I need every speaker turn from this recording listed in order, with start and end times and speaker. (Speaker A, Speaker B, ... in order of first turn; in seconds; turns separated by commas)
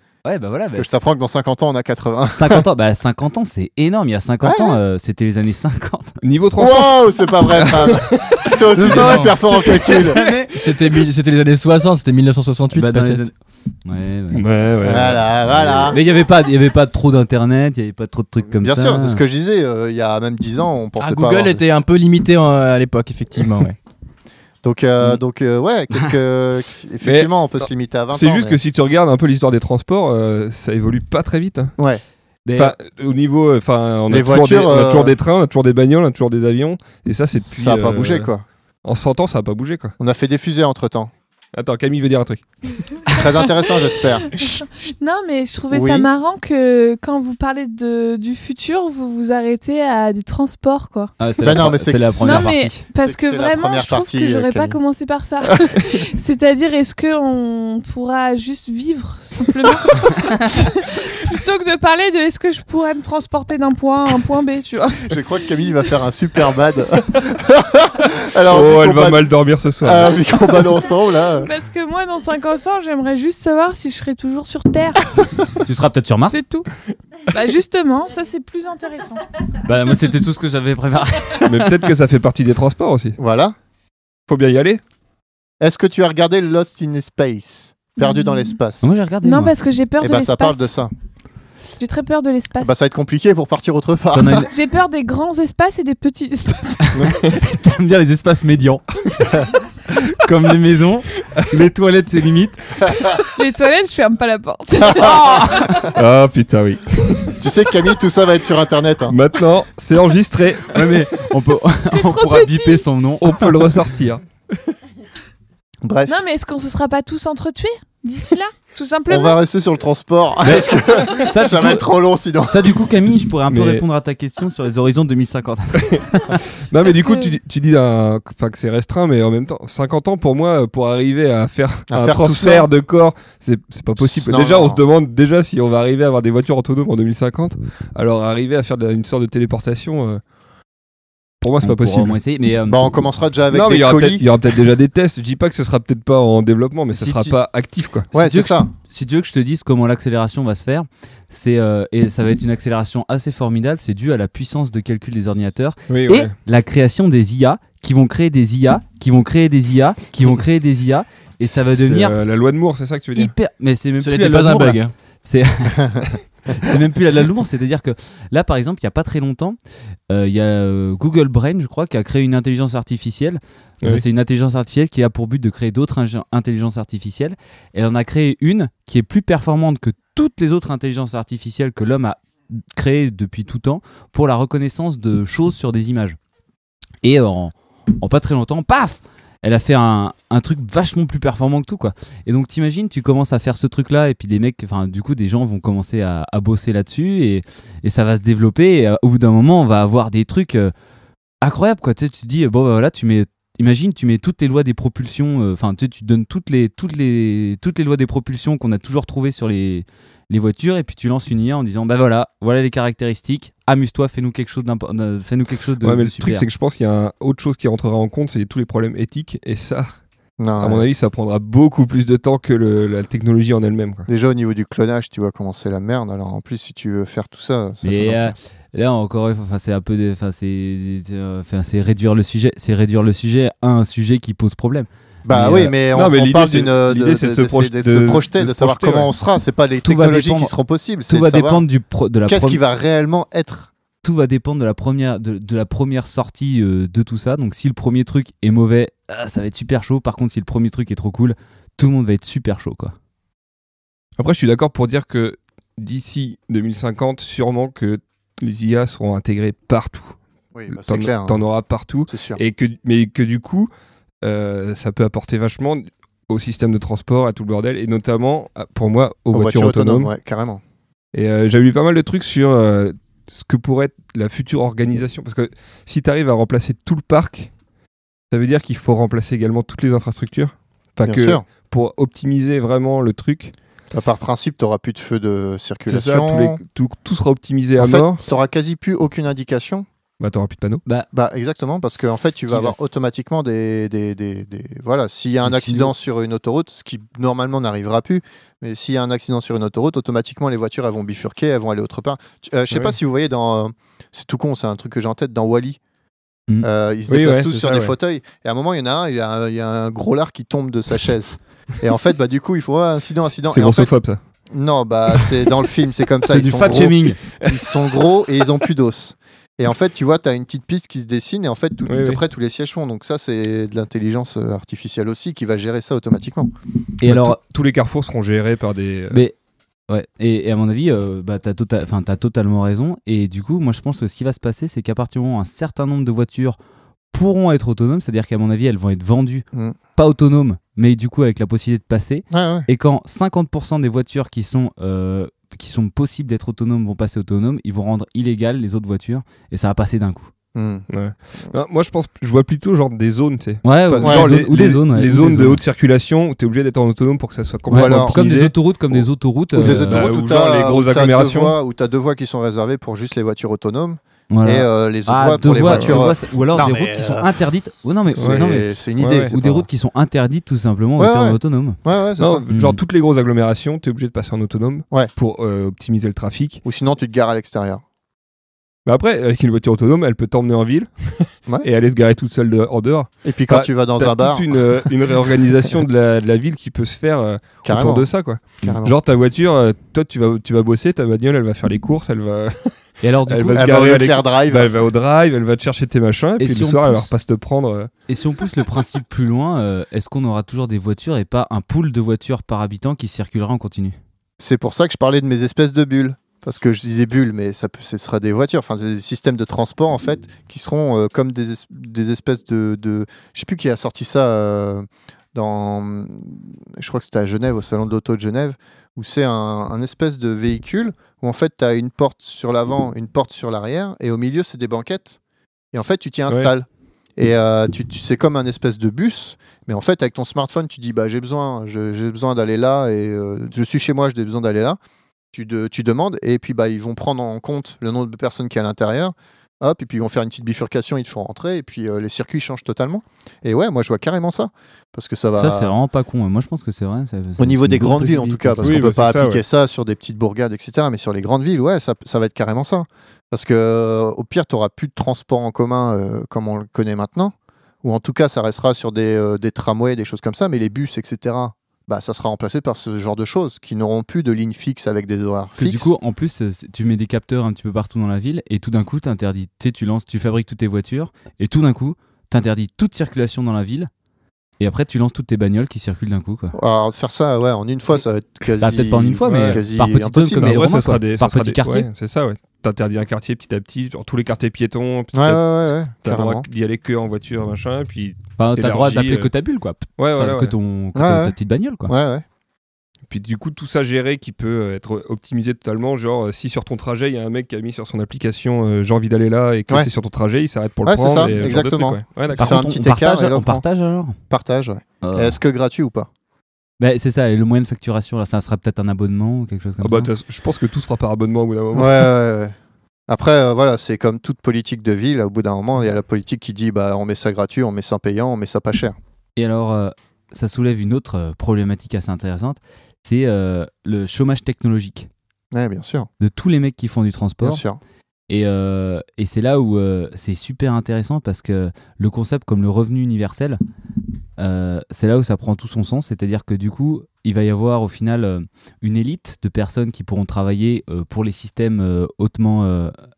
Speaker A: 0.2-0.9, Speaker B: 0.7-2.6, Speaker A: 2.3-6.1, Speaker B: 4.4-4.8, Speaker C: 6.2-8.6, Speaker B: 6.6-10.2, Speaker A: 8.7-10.6, Speaker D: 8.8-9.3, Speaker D: 10.5-13.3, Speaker A: 12.7-14.4, Speaker C: 14.3-15.9, Speaker B: 14.8-16.0, Speaker A: 15.9-19.2, Speaker B: 18.6-21.6, Speaker D: 21.0-23.8, Speaker B: 24.6-28.6, Speaker C: 27.0-31.8, Speaker A: 32.5-32.7, Speaker C: 32.6-38.3, Speaker B: 34.1-35.1, Speaker B: 37.4-38.4, Speaker C: 38.8-40.0, Speaker B: 40.0-41.1, Speaker C: 41.5-42.5, Speaker B: 43.1-44.3, Speaker E: 44.3-51.1, Speaker B: 45.7-46.1, Speaker A: 51.2-52.8, Speaker B: 51.4-54.8, Speaker E: 52.2-65.2, Speaker B: 65.1-69.3, Speaker C: 68.5-70.2, Speaker B: 69.8-71.5, Speaker E: 71.4-75.1, Speaker A: 75.6-76.4, Speaker E: 76.3-76.7, Speaker E: 77.3-79.2, Speaker A: 79.6-81.9, Speaker C: 81.5-83.2, Speaker B: 83.2-83.5, Speaker C: 84.3-84.8, Speaker B: 85.6-89.0, Speaker E: 88.0-88.5, Speaker A: 88.8-89.5, Speaker E: 89.2-90.8, Speaker B: 90.0-90.9, Speaker E: 91.8-92.7, Speaker B: 92.6-94.5, Speaker A: 94.1-94.5, Speaker E: 94.5-97.2, Speaker A: 96.9-102.9, Speaker E: 103.3-105.7, Speaker A: 105.0-105.8, Speaker C: 105.8-107.4, Speaker B: 107.4-109.2, Speaker C: 109.1-111.0, Speaker A: 110.7-113.6, Speaker E: 111.9-112.8, Speaker C: 113.2-114.2, Speaker B: 115.8-116.2, Speaker E: 116.1-119.4, Speaker B: 119.1-122.6, Speaker A: 120.4-126.4, Speaker C: 123.5-123.8, Speaker C: 126.6-140.2, Speaker E: 126.9-127.3, Speaker B: 131.9-132.7, Speaker B: 134.0-134.8, Speaker C: 141.4-142.2, Speaker A: 141.6-142.9, Speaker B: 142.7-144.2, Speaker C: 143.5-148.1, Speaker A: 146.9-147.4, Speaker B: 148.1-148.7, Speaker A: 148.1-162.2, Speaker C: 155.9-156.3, Speaker C: 161.7-163.3, Speaker A: 163.1-169.6, Speaker D: 164.0-164.9, Speaker A: 170.1-186.2, Speaker A: 187.0-200.7, Speaker A: 201.4-216.5, Speaker C: 215.8-220.0, Speaker B: 220.4-220.8, Speaker C: 220.6-224.1, Speaker B: 224.1-228.3, Speaker A: 227.8-235.7, Speaker B: 235.3-241.6, Speaker C: 235.9-239.1, Speaker A: 239.8-240.5, Speaker A: 241.1-242.6, Speaker B: 242.3-243.7, Speaker A: 244.0-252.9, Speaker C: 254.2-260.2, Speaker B: 260.6-261.4, Speaker C: 260.7-263.7, Speaker B: 262.1-262.4, Speaker C: 264.2-270.1, Speaker B: 269.3-270.6, Speaker C: 271.1-277.5, Speaker C: 278.3-283.5, Speaker B: 281.1-281.4, Speaker B: 283.9-286.6, Speaker C: 285.9-288.2, Speaker B: 287.8-289.9, Speaker C: 290.2-290.8, Speaker B: 291.1-305.8, Speaker A: 292.0-292.8, Speaker A: 295.4-295.9, Speaker B: 306.6-313.9, Speaker C: 307.1-307.9, Speaker C: 313.2-314.2, Speaker B: 314.5-326.5, Speaker A: 316.2-317.2, Speaker C: 317.4-318.1, Speaker C: 321.9-322.2, Speaker A: 327.0-327.4, Speaker C: 327.0-329.2, Speaker A: 329.1-329.4, Speaker A: 329.9-336.6, Speaker A: 337.1-350.3, Speaker B: 342.3-342.7, Speaker B: 350.6-350.9, Speaker C: 350.9-359.1, Speaker A: 353.6-355.6, Speaker B: 354.0-354.3, Speaker A: 357.7-360.1, Speaker B: 357.7-358.2, Speaker B: 359.5-367.3, Speaker C: 359.6-361.6, Speaker A: 364.3-368.7, Speaker C: 365.6-366.0, Speaker B: 368.2-369.7, Speaker C: 368.2-368.4, Speaker C: 369.0-369.3, Speaker A: 369.3-371.8, Speaker B: 371.0-372.4, Speaker C: 372.2-376.6, Speaker A: 372.5-372.8, Speaker B: 376.6-377.8, Speaker C: 378.9-397.9, Speaker B: 383.2-384.9, Speaker B: 387.7-388.1, Speaker B: 388.6-388.9, Speaker A: 393.0-393.7, Speaker B: 393.5-394.7, Speaker A: 396.4-397.1, Speaker A: 398.1-403.9, Speaker B: 404.4-425.2, Speaker B: 425.7-426.7, Speaker B: 427.2-434.8, Speaker B: 435.3-445.7, Speaker A: 445.4-448.8, Speaker B: 447.4-465.9, Speaker C: 448.6-449.4, Speaker A: 465.6-473.9, Speaker A: 474.6-476.6, Speaker B: 476.6-480.6, Speaker A: 478.6-481.9, Speaker C: 479.3-479.6, Speaker C: 480.4-489.3, Speaker B: 485.1-486.4, Speaker A: 488.4-491.9, Speaker C: 490.0-490.6, Speaker B: 490.9-491.3, Speaker B: 491.9-492.2, Speaker C: 493.1-502.6, Speaker B: 500.9-503.6, Speaker A: 502.4-504.2, Speaker B: 504.3-506.1, Speaker A: 505.0-505.4, Speaker A: 506.8-510.1, Speaker C: 509.8-512.1, Speaker B: 511.7-512.5, Speaker B: 513.1-519.0, Speaker A: 519.4-525.1, Speaker B: 525.5-526.1, Speaker A: 526.2-527.6, Speaker B: 527.4-527.8, Speaker A: 528.3-533.6, Speaker A: 534.4-542.9